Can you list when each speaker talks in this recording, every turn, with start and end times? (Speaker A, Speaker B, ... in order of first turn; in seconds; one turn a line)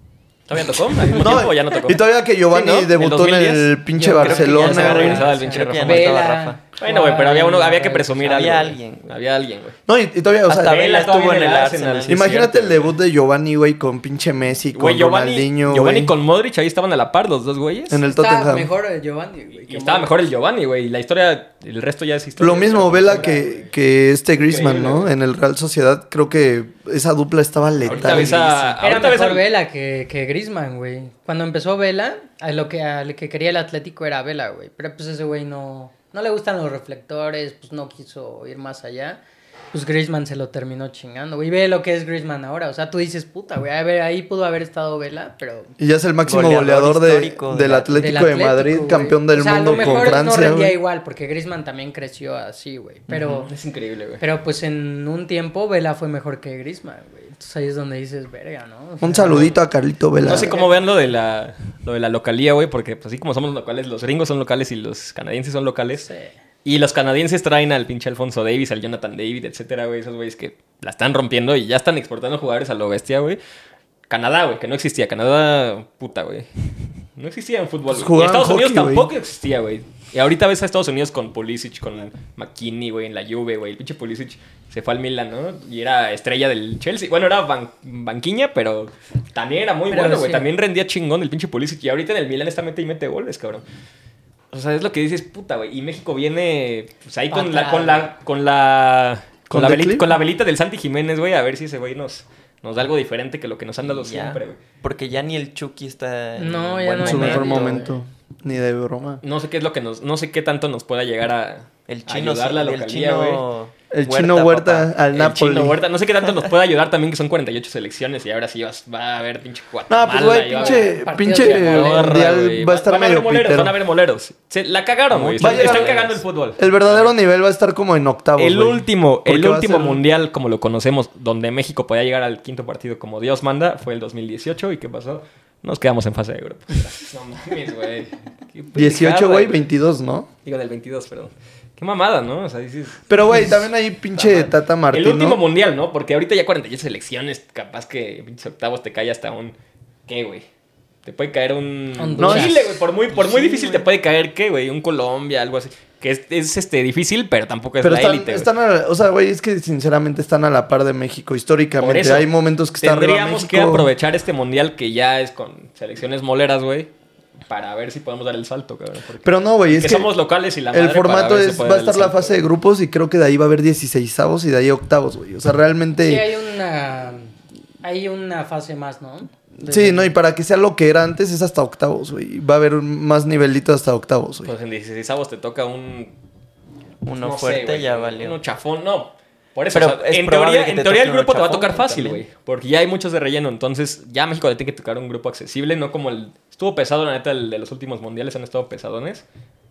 Speaker A: 0.5-6.2
Speaker B: 1.2-5.2
Speaker C: 4.0-8.1
Speaker D: 4.2-6.6
Speaker A: 6.8-9.8
Speaker D: 8.1-9.1
Speaker B: 9.9-10.8
Speaker D: 10.5-12.2
Speaker A: 10.5-12.9
Speaker B: 12.1-16.1
Speaker A: 14.7-18.0
Speaker B: 17.9-18.7
Speaker C: 18.1-20.2
Speaker A: 19.7-23.7
Speaker B: 22.4-28.7
Speaker C: 23.1-23.5
Speaker A: 24.4-25.1
Speaker A: 27.8-29.4
Speaker D: 27.8-28.6
Speaker C: 28.8-39.2
Speaker C: 39.7-45.7
Speaker B: 45.8-50.7
Speaker D: 46.2-48.1
Speaker C: 48.0-53.5
Speaker A: 49.6-50.2
Speaker D: 53.1-53.4
Speaker A: 53.2-54.2
Speaker C: 54.2-59.5
Speaker B: 59.0-60.5
Speaker C: 60.2-60.8
Speaker A: 60.2-66.1
Speaker C: 66.0-66.3
Speaker A: 66.6-73.4
Speaker A: 74.1-76.5
Speaker A: 77.2-93.6
Speaker B: 77.9-79.1
Speaker C: 89.9-90.5
Speaker A: 94.5-104.6
Speaker C: 97.3-98.1
Speaker B: 99.5-100.2
Speaker D: 103.8-107.8
Speaker C: 106.4-107.9
Speaker B: 107.0-109.2
Speaker A: 107.1-107.4
Speaker A: 109.2-113.4
Speaker D: 111.9-114.9
Speaker B: 113.9-115.8
Speaker A: 115.1-127.1
Speaker B: 119.9-123.8
Speaker C: 120.5-122.2
Speaker D: 125.1-126.2
Speaker B: 125.4-126.0
Speaker B: 126.6-130.0
Speaker A: 128.4-139.6
Speaker B: 138.7-140.3
Speaker A: 140.4-143.5
Speaker B: 143.1-145.4
Speaker A: 144.1-149.5
Speaker A: 150.1-150.4
Speaker A: 151.0-158.5
Speaker C: 152.0-152.6
Speaker B: 152.2-152.6
Speaker D: 153.1-153.8
Speaker B: 157.8-163.9
Speaker A: 161.8-166.9
Speaker A: 167.5-172.4
Speaker B: 169.2-170.1
Speaker B: 170.7-176.2
Speaker C: 176.0-180.1
Speaker B: 179.6-184.5
Speaker A: 184.4-186.1
Speaker D: 187.0-188.4
Speaker A: 187.2-199.2
Speaker D: 189.7-192.2